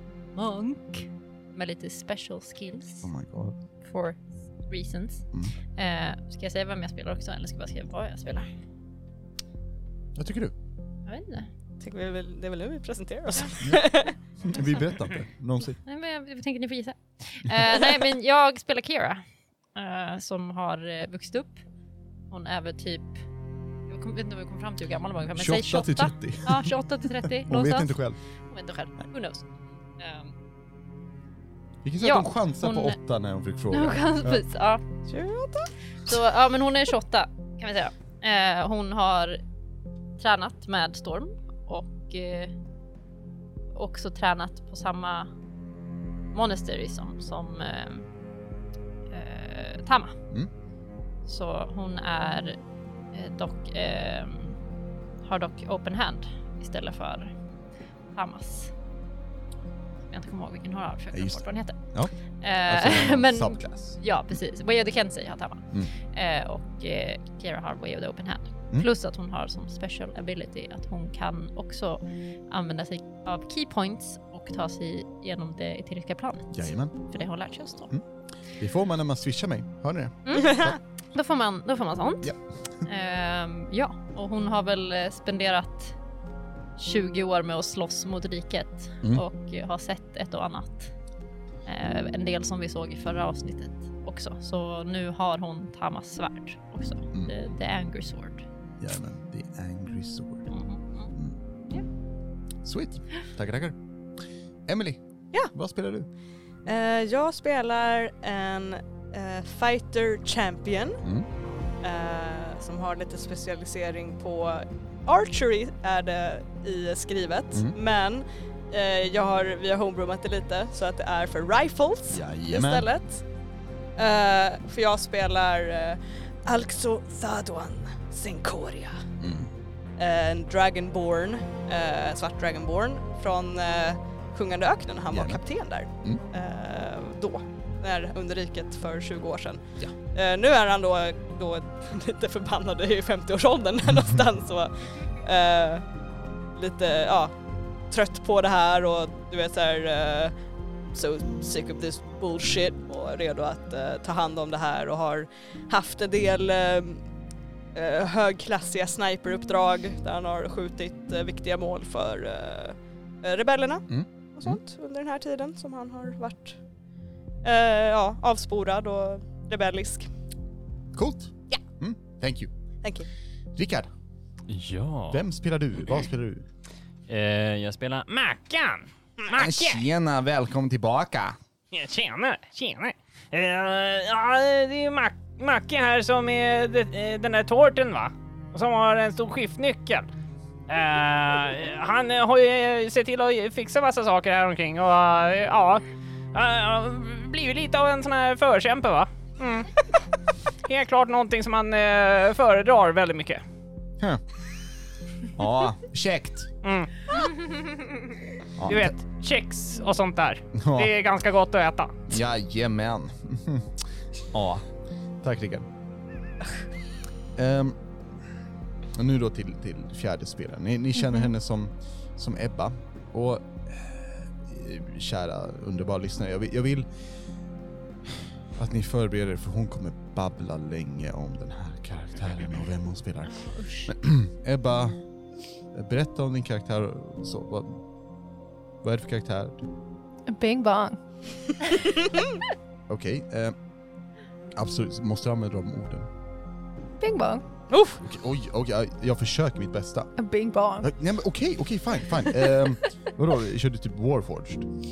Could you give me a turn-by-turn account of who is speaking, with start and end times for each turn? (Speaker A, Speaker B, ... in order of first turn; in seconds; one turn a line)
Speaker A: 0.3-3.1
Speaker B: 3.0-3.6
Speaker A: 3.8-8.5
Speaker B: 10.2-10.6
Speaker A: 11.1-11.5
Speaker C: 11.8-14.2
Speaker B: 14.4-15.8
Speaker A: 15.8-19.2
Speaker A: 19.8-21.6
Speaker A: 22.3-23.2
Speaker A: 23.9-28.0
Speaker B: 25.4-28.2
Speaker A: 28.5-29.4
Speaker A: 30.0-30.3
Speaker B: 31.8-34.4
Speaker A: 32.0-33.0
Speaker A: 33.7-34.8
Speaker C: 35.1-35.7
Speaker A: 36.1-39.4
Speaker A: 40.2-42.5
Speaker A: 43.7-45.3
Speaker A: 46.3-48.1
Speaker A: 49.1-50.2
Speaker A: 51.3-52.6
Speaker A: 53.1-54.6
Speaker A: 55.2-57.3
Speaker A: 58.1-58.7
Speaker A: 60.1-61.8
Speaker B: 61.1-64.0
Speaker A: 62.4-77.9
Speaker B: 76.5-77.2
Speaker B: 78.6-80.8
Speaker A: 80.3-82.3
Speaker C: 80.4-80.8
Speaker A: 82.8-86.0
Speaker A: 86.8-90.9
Speaker A: 91.7-98.4
Speaker B: 98.8-100.5
Speaker A: 100.5-101.1
Speaker B: 102.6-103.8
Speaker B: 104.7-106.1
Speaker C: 106.7-111.0
Speaker C: 111.8-123.2
Speaker B: 122.1-122.9
Speaker C: 124.0-129.0
Speaker B: 129.2-129.5
Speaker C: 130.0-145.8
Speaker B: 135.1-135.4
Speaker C: 146.6-147.4
Speaker C: 147.9-150.3
Speaker C: 150.9-157.0
Speaker C: 157.7-166.6
Speaker B: 163.9-164.6
Speaker C: 167.4-170.1
Speaker B: 170.9-172.5
Speaker C: 172.8-173.1
Speaker B: 173.5-173.9
Speaker D: 174.5-175.2
Speaker B: 175.1-176.5
Speaker D: 177.1-179.8
Speaker B: 179.3-181.4
Speaker D: 181.7-190.1
Speaker D: 190.7-199.8
Speaker D: 200.7-203.4
Speaker B: 205.3-206.5
Speaker D: 206.6-207.3
Speaker B: 208.6-208.9
Speaker D: 208.7-212.1
Speaker B: 210.6-210.9
Speaker B: 212.1-214.7
Speaker B: 215.2-215.7
Speaker B: 217.4-217.8
Speaker B: 218.9-226.9
Speaker B: 228.6-235.0
Speaker A: 233.3-233.9
Speaker B: 235.7-237.8
Speaker B: 238.8-239.7
Speaker E: 240.3-241.0
Speaker C: 241.9-242.2
Speaker B: 242.9-243.6
Speaker B: 244.6-246.1
Speaker E: 247.0-247.4
Speaker C: 247.7-248.0
Speaker B: 248.0-250.1
Speaker E: 250.2-250.9
Speaker B: 250.8-254.7